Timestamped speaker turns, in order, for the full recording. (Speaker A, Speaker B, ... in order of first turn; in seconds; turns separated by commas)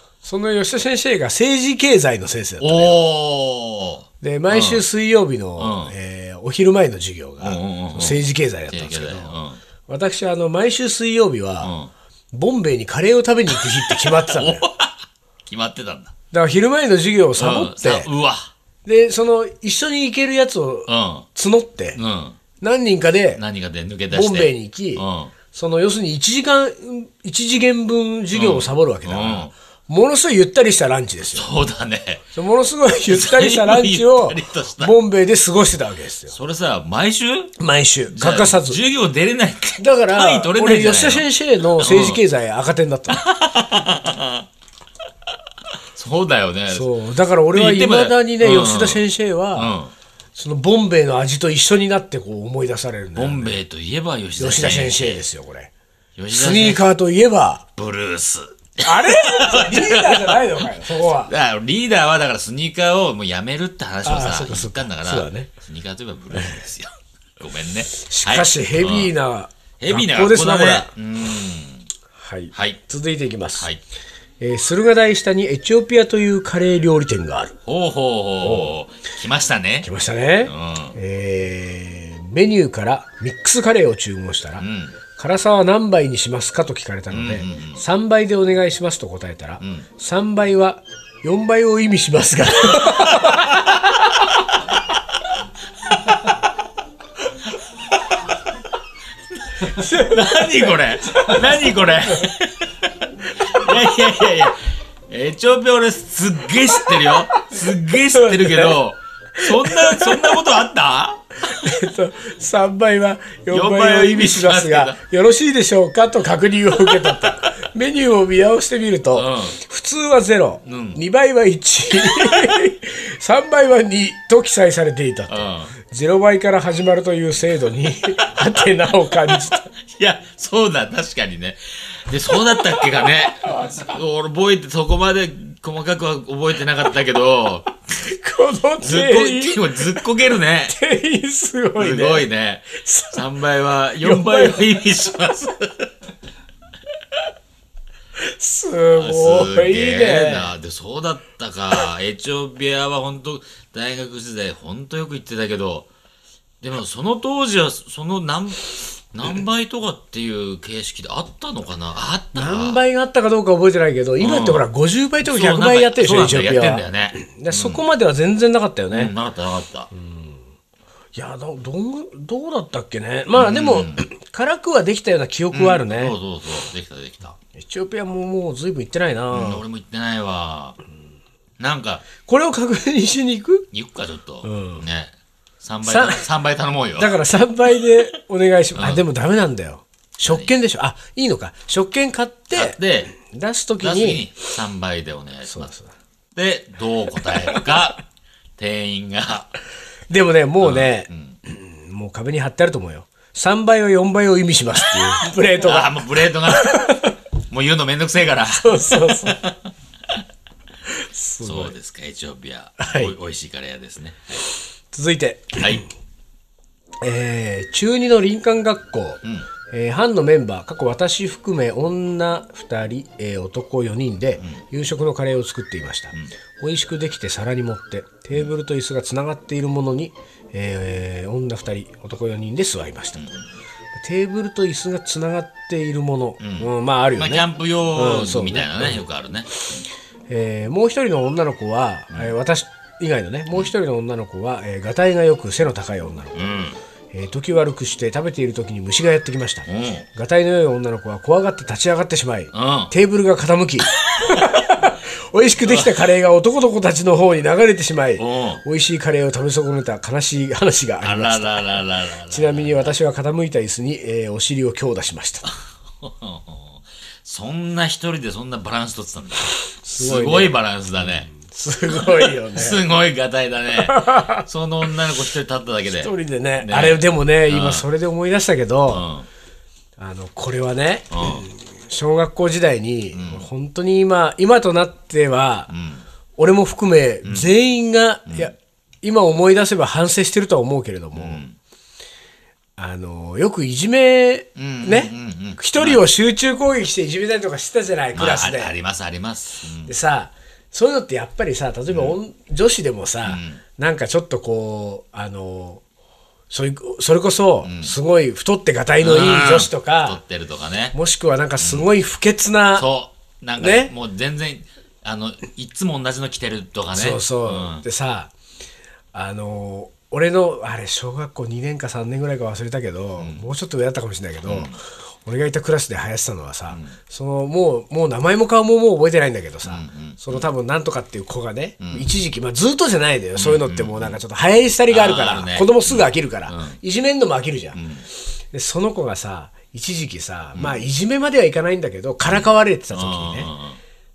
Speaker A: 0.2-3.0, Speaker B: 2.6-4.8, Speaker A: 4.2-11.7, Speaker B: 5.6-5.9, Speaker B: 7.4-9.6, Speaker B: 11.6-11.9, Speaker A: 12.3-14.6, Speaker B: 13.5-16.1, Speaker A: 16.3-18.1, Speaker B: 17.4-18.5, Speaker A: 18.8-22.0, Speaker B: 20.9-21.3, Speaker B: 21.9-22.4, Speaker A: 22.6-23.4, Speaker B: 23.3-25.3, Speaker A: 24.1-31.5, Speaker B: 28.3-29.5, Speaker B: 31.3-32.2, Speaker A: 32.3-36.3, Speaker B: 33.0-34.9, Speaker B: 36.3-37.5, Speaker A: 37.6-38.8, Speaker B: 38.1-42.2, Speaker A: 39.8-43.2, Speaker B: 43.1-44.5, Speaker B: 45.8-46.9, Speaker A: 46.7-49.7, Speaker B: 47.5-49.0, Speaker B: 49.5-49.9, Speaker A: 50.4-53.6, Speaker B: 53.1-55.2, Speaker A: 54.4-55.7, Speaker B: 56.2-56.8, Speaker A: 56.3-57.6, Speaker B: 57.8-69.1, Speaker A: 58.8-61.3, Speaker A: 64.0-65.5, Speaker A: 66.3-66.6, Speaker A: 68.0-70.9, Speaker B: 69.8-71.9, Speaker A: 72.2-73.7, Speaker B: 72.5-72.8, Speaker A: 74.4-77.5, Speaker B: 77.7-79.9, Speaker A: 78.4-78.7, Speaker A: 79.8-84.6, Speaker B: 80.4-81.0, Speaker B: 84.6-85.0, Speaker A: 85.2-93.9, Speaker B: 87.1-87.8, Speaker B: 89.6-89.8, Speaker B: 92.9-93.3, Speaker B: 99.4-111.5, Speaker A: 99.6-102.3, Speaker A: 103.4-103.8, Speaker A: 106.8-107.5, Speaker A: 108.1-108.8, Speaker A: 109.4-110.4, Speaker A: 111.4-129.7, Speaker B: 113.5-115.0, Speaker B: 116.8-117.3, Speaker B: 119.1-119.6, Speaker B: 120.7-121.0, Speaker B: 122.0-122.5, Speaker B: 125.3-125.7, Speaker B: 129.3-137.7, Speaker A: 133.4-133.8, Speaker A: 138.0-139.8, Speaker B: 138.8-140.7, Speaker A: 140.7-143.2, Speaker B: 141.8-145.9, Speaker A: 144.0-144.8, Speaker A: 148.2-150.5, Speaker B: 148.9-155.9, Speaker B: 156.6-162.8, Speaker A: 162.3-169.1, Speaker B: 164.2-164.7, Speaker B: 165.2-167.8, Speaker B: 168.9-169.9, Speaker A: 169.9-170.4, Speaker A: 171.1-176.2, Speaker B: 173.3-174.1, Speaker B: 175.5-177.4, Speaker A: 177.5-179.6, Speaker B: 179.3-180.8, Speaker B: 181.6-182.0, Speaker A: 182.2-183.7, Speaker B: 183.7-187.1, Speaker A: 184.4-184.8, Speaker A: 185.8-186.2, Speaker A: 187.0-194.2, Speaker B: 188.7-189.0, Speaker B: 190.2-190.5, Speaker B: 192.5-193.1, Speaker B: 193.8-195.7, Speaker A: 195.5-195.9, Speaker B: 196.3-198.0, Speaker B: 198.6-199.5, Speaker A: 200.1-207.1, Speaker B: 200.6-201.3, Speaker B: 204.7-209.5, Speaker A: 208.4-209.5, Speaker A: 211.0-211.7, Speaker B: 211.4-214.4, Speaker A: 212.8-213.1, Speaker A: 214.9-215.8, Speaker B: 215.6-215.8, Speaker A: 217.0-233.3, Speaker B: 233.2-233.4, Speaker A: 234.0-239.0, Speaker B: 236.4-239.5, Speaker A: 240.3-246.3, Speaker B: 246.3-246.8, Speaker A: 247.1-265.5, Speaker B: 249.7-250.1, Speaker B: 252.5-252.9, Speaker B: 254.1-254.5, Speaker B: 255.6-255.9, Speaker B: 258.2-258.6, Speaker B: 261.0-262.9, Speaker B: 266.0-271.3, Speaker A: 269.8-272.8, Speaker B: 271.9-277.9, Speaker A: 273.8-274.4, Speaker A: 275.9-279.1, Speaker B: 278.9-279.3, Speaker A: 280.0-285.7, Speaker B: 281.1-281.4, Speaker B: 283.1-283.4, Speaker B: 285.7-286.0, Speaker A: 286.4-291.4, Speaker B: 287.2-287.5, Speaker B: 288.3-288.5, Speaker B: 291.1-291.6, Speaker A: 292.8-298.7, Speaker B: 294.6-296.0, Speaker B: 298.1-299.9, Speaker A: 299.9-305.8, Speaker B: 301.9-302.1, Speaker B: 303.2-303.6, Speaker A: 306.5-310.2, Speaker B: 307.6-308.0, Speaker B: 309.0-310.9, Speaker A: 310.9-312.9, Speaker B: 311.6-311.9, Speaker B: 312.8-317.8, Speaker A: 313.6-313.9, Speaker A: 316.9-318.3, Speaker A: 319.1-337.8, Speaker B: 323.2-323.5, Speaker B: 324.4-324.8, Speaker B: 329.6-330.5, Speaker B: 331.8-332.1, Speaker B: 333.4-334.2, Speaker B: 334.9-336.8, Speaker B: 337.7-338.1, Speaker A: 338.5-343.5, Speaker B: 340.5-340.8, Speaker B: 342.2-343.8